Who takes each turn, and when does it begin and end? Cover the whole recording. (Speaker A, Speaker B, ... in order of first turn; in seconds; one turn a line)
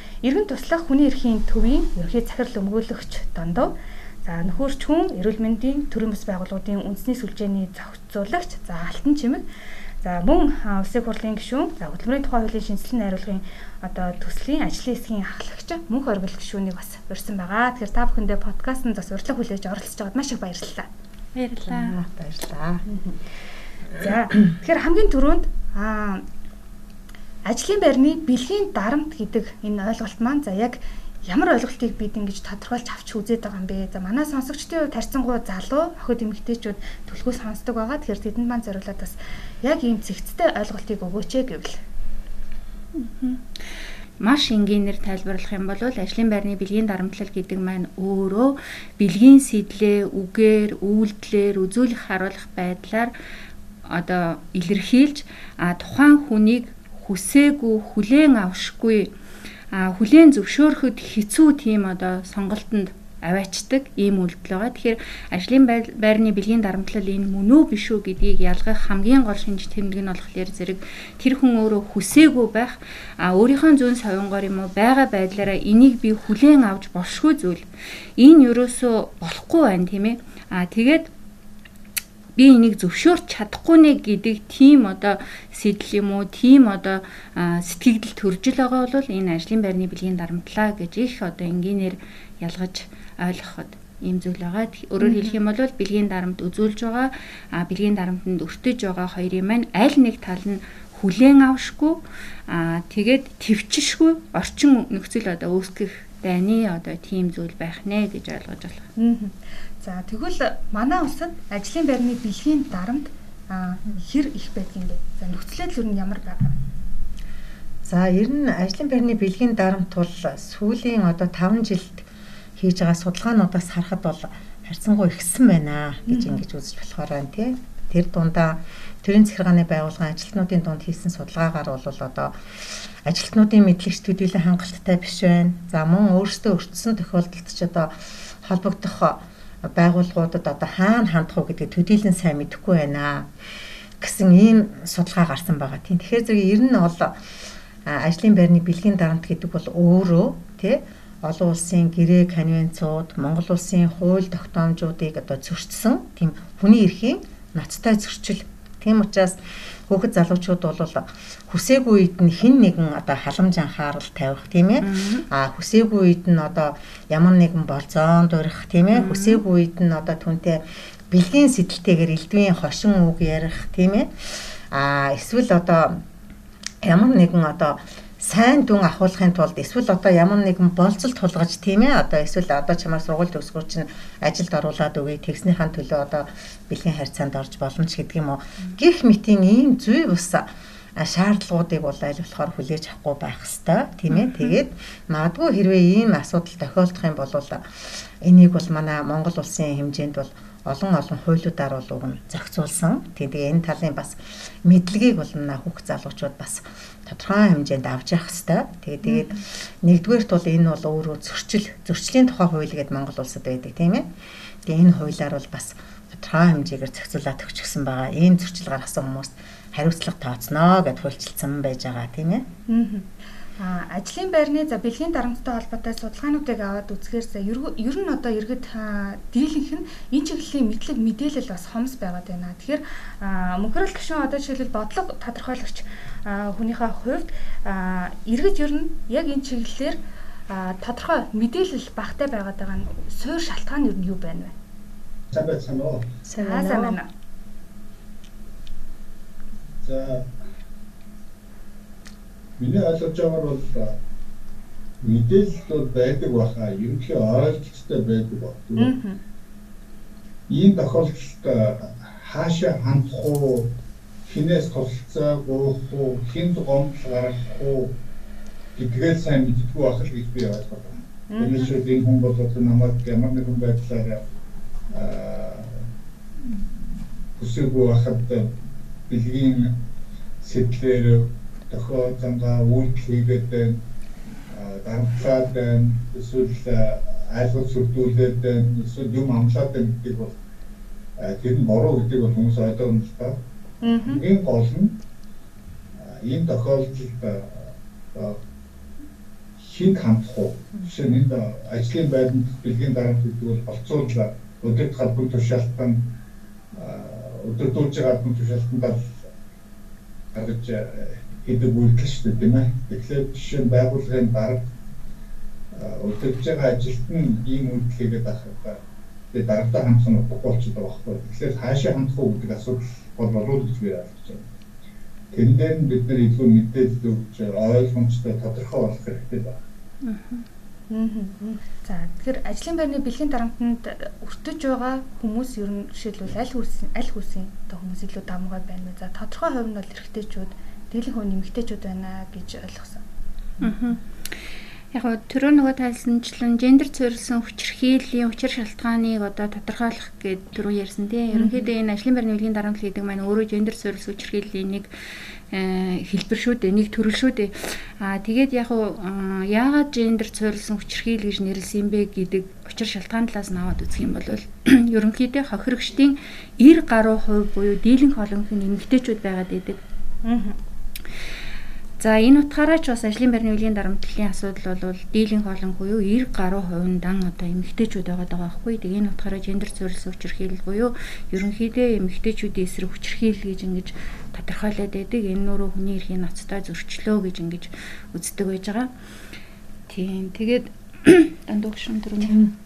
Speaker A: 0.2-3.7
Speaker A: 4.2-9.4
Speaker A: 10.0-20.9
Speaker B: 21.3-21.9
Speaker C: 21.6-22.8
Speaker A: 22.9-23.2
Speaker A: 23.9-26.2
Speaker A: 27.4-41.8
Speaker B: 44.2-53.1
Speaker B: 53.9-59.1
Speaker B: 59.7-77.6
Speaker B: 78.2-81.1
Speaker B: 82.4-108.9
Speaker A: 95.0-95.3
Speaker A: 109.0-116.5
Speaker C: 117.8-143.3
Speaker A: 126.1-126.4
Speaker C: 144.0-147.2
Speaker C: 147.8-176.0
Speaker B: 164.8-165.2
Speaker B: 168.9-169.4
Speaker C: 176.8-214.1
Speaker B: 194.1-194.6
Speaker A: 209.0-209.3
Speaker C: 214.6-222.4
Speaker A: 222.7-223.1
Speaker A: 223.6-244.5
Speaker D: 245.3-246.1
Speaker C: 246.2-247.0
Speaker A: 246.4-247.1
Speaker D: 249.8-250.3
Speaker D: 252.6-253.9
Speaker D: 255.0-258.9
Speaker A: 258.8-259.2
Speaker D: 260.5-263.7
Speaker D: 264.2-267.9
Speaker D: 268.8-274.2
Speaker A: 271.3-271.7
Speaker D: 274.9-275.9
Speaker D: 276.4-278.5
Speaker D: 279.1-279.7
Speaker D: 280.4-283.8
Speaker D: 284.5-290.3
Speaker D: 291.2-293.4
Speaker A: 293.8-294.2
Speaker D: 294.0-294.9
Speaker D: 296.0-298.4
Speaker D: 299.6-306.0
Speaker D: 306.7-309.1
Speaker D: 310.3-314.6
Speaker D: 315.7-318.8
Speaker D: 319.3-324.4
Speaker D: 325.3-329.6
Speaker B: 330.0-330.4
Speaker A: 330.9-343.0
Speaker B: 343.6-344.0
Speaker B: 344.9-354.9
Speaker A: 351.3-351.7
Speaker B: 355.5-369.8
Speaker A: 370.2-370.6
Speaker B: 372.0-388.9
Speaker B: 389.9-392.4